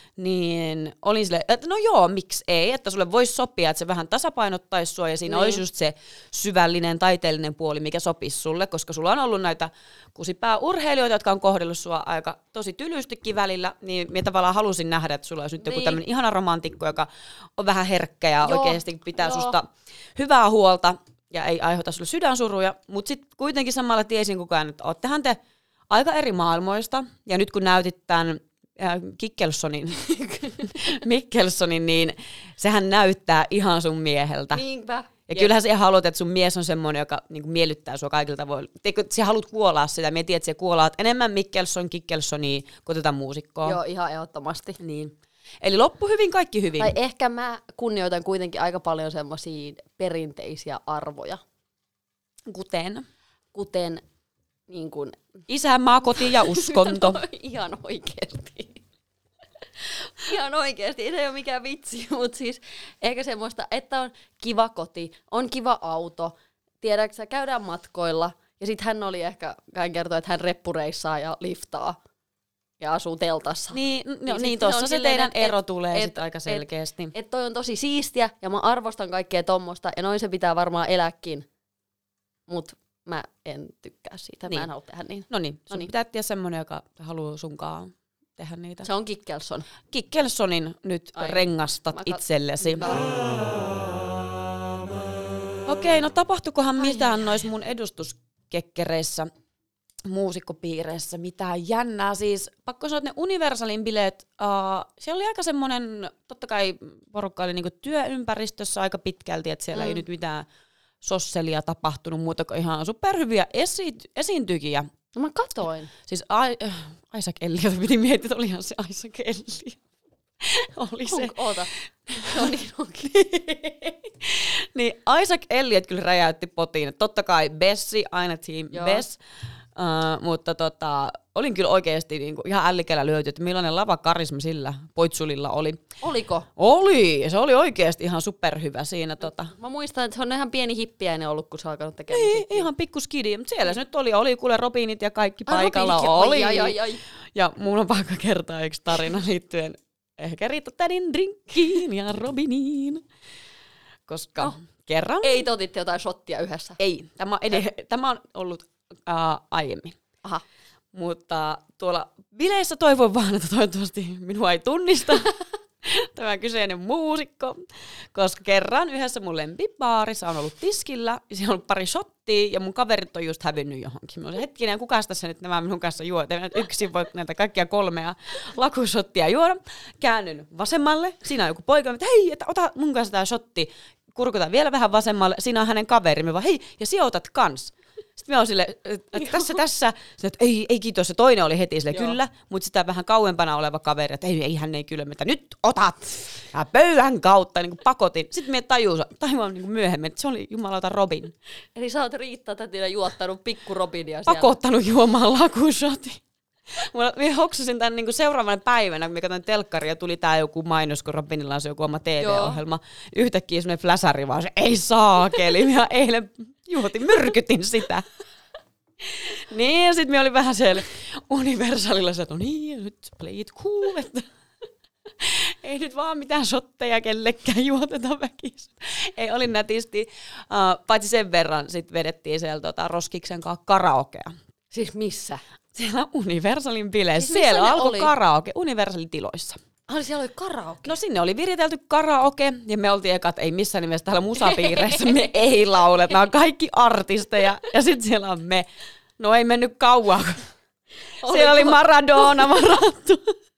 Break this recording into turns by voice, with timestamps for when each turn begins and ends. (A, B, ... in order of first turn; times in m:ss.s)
0:00.2-0:25.4 A
0:05.3-0:05.6 B
0:15.6-0:16.0 B
0:18.4-0:19.6 B
0:25.9-0:34.6 A
0:30.3-0:30.6 B
0:34.5-0:35.5 B
0:35.3-0:43.8 A
0:43.6-0:44.8 B
0:44.8-0:47.0 A
0:46.8-0:51.4 B
0:52.5-0:53.0 A
0:53.5-0:54.0 B
0:54.7-0:55.3 B
0:55.5-0:57.2 A
0:56.2-0:58.8 B
1:00.2-1:12.0 B
1:12.8-1:21.5 B
1:13.7-1:17.1 A
1:22.5-1:25.9 B
1:25.3-1:28.9 A
1:28.8-1:29.7 B
1:29.9-1:33.0 A
1:31.2-1:33.1 B
1:35.7-1:39.3 A
1:36.8-1:37.1 B
1:40.0-1:50.5 A
1:49.7-1:50.0 B
1:51.0-1:54.9 A
1:55.1-1:55.9 B
1:56.1-1:59.8 A
2:00.4-2:01.4 A
2:01.1-2:03.1 B
2:02.1-2:09.2 A
2:08.7-2:09.0 B
2:09.8-2:15.8 A
2:16.0-2:16.5 B
2:16.6-2:19.6 A
2:19.4-2:22.7 B
2:22.1-2:26.8 A
2:25.5-2:27.0 B
2:27.3-2:33.0 A
2:34.1-2:35.5 A
2:35.2-2:36.8 B
2:36.8-2:40.0 A
2:40.9-3:21.3 A
3:21.8-3:24.6 B
3:24.3-3:26.2 A
3:26.7-3:38.0 A
3:32.2-3:32.6 B
3:39.1-3:44.3 A
3:45.2-3:54.3 A
3:54.7-3:55.4 B
3:55.7-3:59.6 A
3:57.2-3:58.1 B
3:59.9-4:00.9 B
4:00.8-4:08.7 A
4:04.5-4:05.2 B
4:09.2-4:10.4 A
4:11.2-4:11.8 B
4:11.2-4:13.4 A